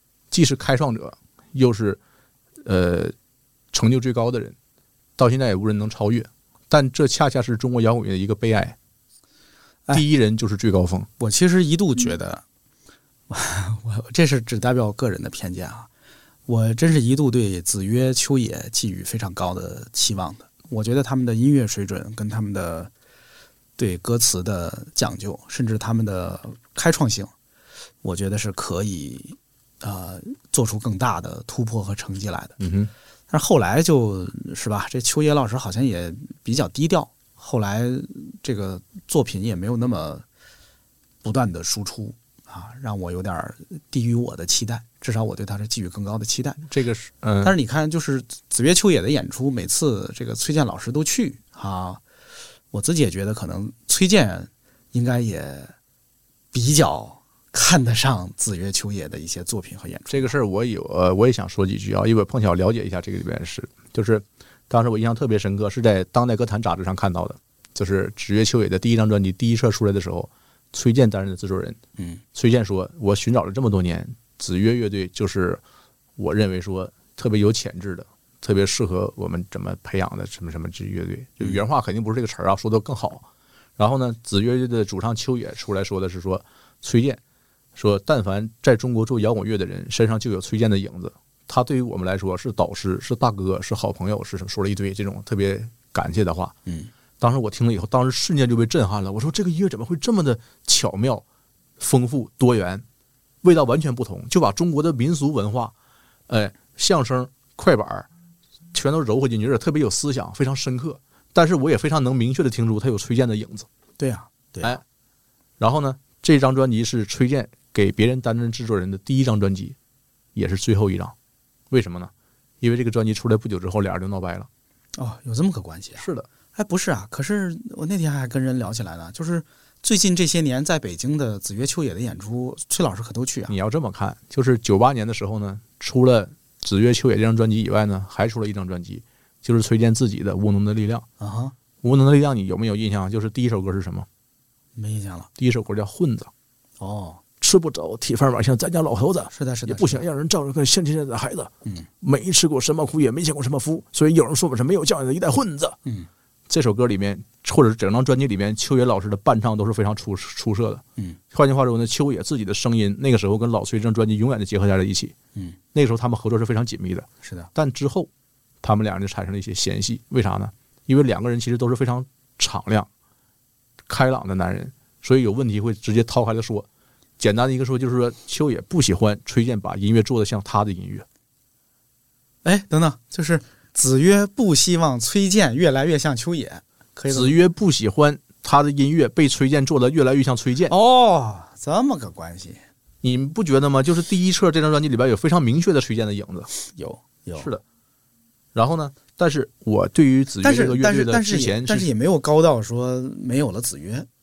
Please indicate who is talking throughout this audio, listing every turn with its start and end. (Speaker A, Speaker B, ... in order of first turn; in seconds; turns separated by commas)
Speaker A: 0.3-2.0, Speaker A: 2.6-3.1, Speaker A: 3.7-4.6, Speaker A: 5.2-8.8, Speaker A: 9.9-11.1, Speaker B: 11.2-12.4, Speaker B: 13.3-15.9, Speaker B: 16.5-22.9, Speaker B: 23.8-27.3, Speaker B: 28.0-32.6, Speaker A: 32.6-32.9, Speaker B: 33.3-40.2, Speaker B: 41.2-46.6, Speaker A: 46.7-47.5, Speaker B: 47.4-52.0, Speaker B: 52.7-55.8, Speaker B: 56.5-60.3, Speaker A: 60.1-71.8, Speaker B: 72.0-72.2, Speaker A: 72.3-75.6, Speaker A: 76.2-83.3, Speaker A: 83.8-87.2, Speaker A: 87.8-96.6, Speaker B: 96.7-96.9, Speaker A: 97.2-101.2, Speaker A: 101.8-102.8, Speaker A: 103.4-105.7, Speaker A: 106.3-108.1, Speaker A: 108.7-113.7, Speaker B: 114.0-114.8, Speaker A: 115.6-119.8, Speaker A: 120.3-121.2, Speaker A: 121.7-124.5, Speaker B: 125.0-133.5, Speaker A: 126.0-126.3, Speaker A: 133.5-141.1, Speaker B: 141.2-141.6, Speaker A: 141.8-144.1, Speaker B: 144.8-145.3, Speaker A: 145.4-146.3, Speaker B: 146.8-147.2, Speaker A: 147.4-155.8, Speaker B: 149.3-150.1, Speaker A: 156.5-165.1, Speaker A: 165.7-168.1, Speaker B: 167.2-167.5, Speaker A: 168.6-172.9, Speaker A: 173.9-176.7, Speaker A: 177.2-181.1, Speaker B: 182.4-187.4, Speaker A: 187.1-190.7, Speaker B: 190.7-192.6, Speaker A: 193.0-196.5, Speaker B: 196.7-197.5, Speaker A: 197.4-197.6, Speaker A: 198.5-201.9, Speaker B: 200.4-204.1